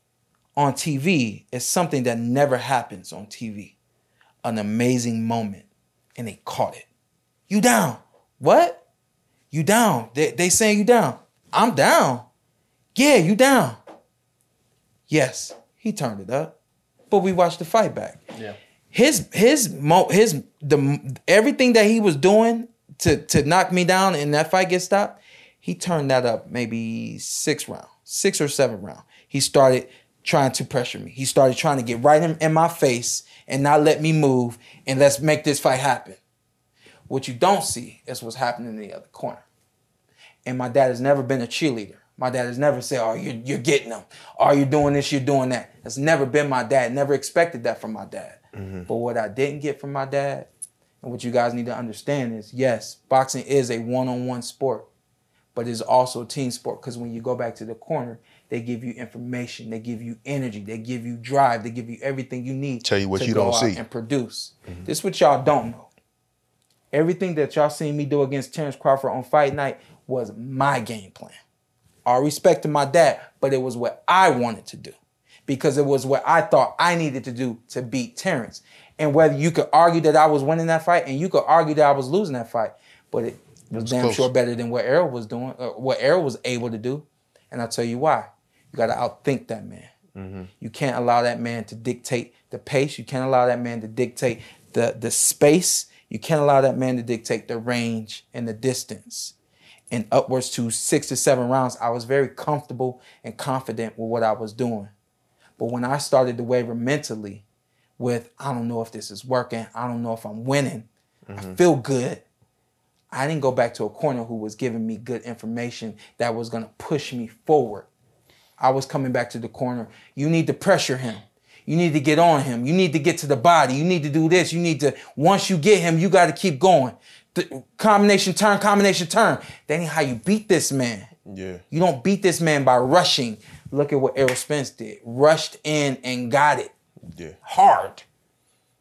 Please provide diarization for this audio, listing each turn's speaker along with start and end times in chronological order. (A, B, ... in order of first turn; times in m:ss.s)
0:00.6-0:03.7 A
0:04.4-0:05.6 A
0:06.2-0:06.8 A
0:07.5-0:08.8 A
0:09.5-0:12.3 A
0:12.9-0:13.8 A
0:15.1-0:16.5 A
0:17.1-0:18.2 A
0:18.9-0:36.2 A
0:37.1-0:39.4 A
0:40.4-0:50.5 A
0:48.5-0:48.9 B
0:51.0-0:54.9 A
0:55.5-1:05.9 A
1:02.8-1:03.8 B
1:06.9-1:11.4 A
1:12.0-1:14.9 A
1:15.5-1:29.9 A
1:23.7-1:24.3 B
1:30.2-1:30.5 B
1:30.6-1:39.3 A
1:39.9-1:44.9 A
1:45.6-1:47.4 A
1:48.0-1:52.2 A
1:51.3-1:51.6 B
1:53.1-1:57.9 A
1:58.6-2:11.1 A
2:11.2-2:11.6 B
2:11.7-2:16.7 A
2:17.1-2:17.4 B
2:17.4-2:18.0 A